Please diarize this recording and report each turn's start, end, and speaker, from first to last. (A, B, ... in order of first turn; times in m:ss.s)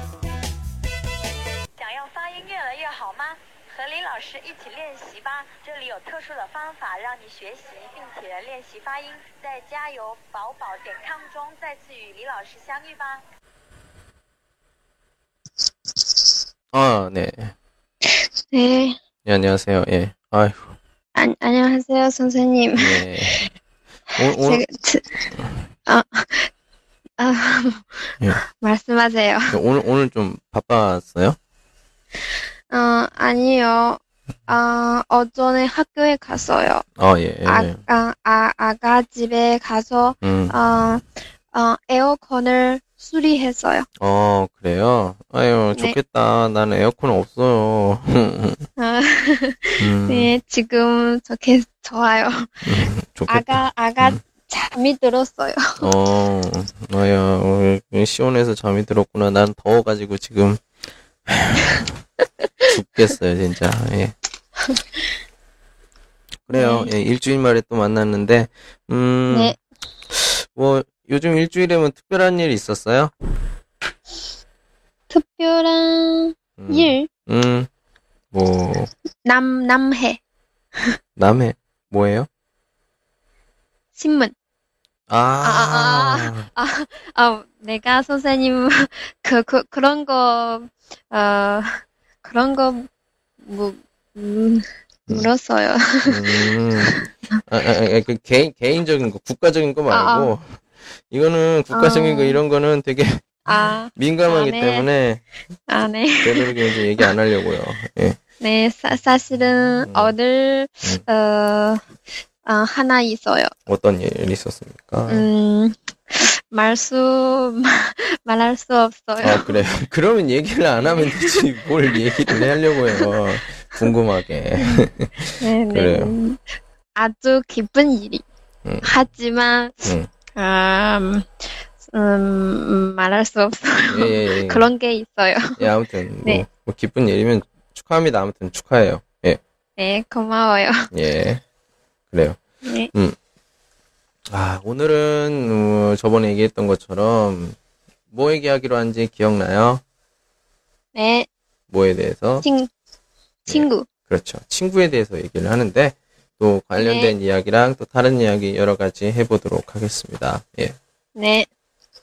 0:01.8-0:13.2 A
0:16.7-0:17.5 B
0:18.5-0:19.0 C
0:19.2-0:20.8 B
0:21.2-0:23.5 C
0:22.8-0:23.4 B
0:24.2-0:24.6 B
0:24.3-0:25.2 C
0:25.9-0:26.5 C
0:27.2-0:29.6 C
0:29.5-0:31.4 B
0:32.7-0:36.8 C
0:37.0-0:37.8 B
0:37.4-0:43.9 C
0:40.2-0:40.6 B
0:44.0-0:48.6 B
0:48.8-0:52.7 C
0:49.8-0:50.3 B
0:52.6-0:54.2 B
0:53.3-0:55.9 C
0:55.8-1:00.6 B
1:01.3-1:01.9 B
1:02.7-1:04.2 B
1:06.5-1:09.6 B
1:06.5-1:06.9 C
1:09.3-1:09.6 C
1:10.1-1:13.1 B
1:15.1-1:17.1 C
1:16.6-1:17.7 B
1:18.3-1:18.9 B
1:19.2-1:20.2 C
1:21.2-1:22.3 B
1:24.0-1:24.3 C
1:25.1-1:26.5 B
1:25.4-1:32.9 C
1:33.4-1:37.0 C
1:36.1-1:43.4 B
1:39.9-1:40.3 C
1:41.7-1:42.4 C
1:43.5-1:44.9 C
1:44.0-1:45.2 B
1:45.7-1:47.1 C
1:46.2-1:48.2 B
1:48.4-1:51.8 C
1:49.8-1:50.1 B
1:52.4-1:53.5 C
1:53.7-1:55.3 B
1:55.1-1:59.5 C
1:59.2-2:06.2 B
2:01.0-2:01.4 C
2:05.4-2:06.4 C
2:07.0-2:08.2 C
2:08.6-2:08.9 B
2:08.8-2:15.6 C
2:13.9-2:14.7 B
2:15.6-2:19.4 B
2:19.8-2:20.9 C
2:20.9-2:21.4 B
2:22.1-2:22.4 B
2:22.6-2:22.9 C
2:24.3-2:27.6 B
2:28.1-2:29.8 B
2:30.9-2:31.3 C
2:31.7-2:32.4 B
2:32.4-2:32.7 C
2:33.5-2:40.8 B
2:33.5-2:33.9 C
2:36.8-2:37.1 C
2:41.2-2:41.5 C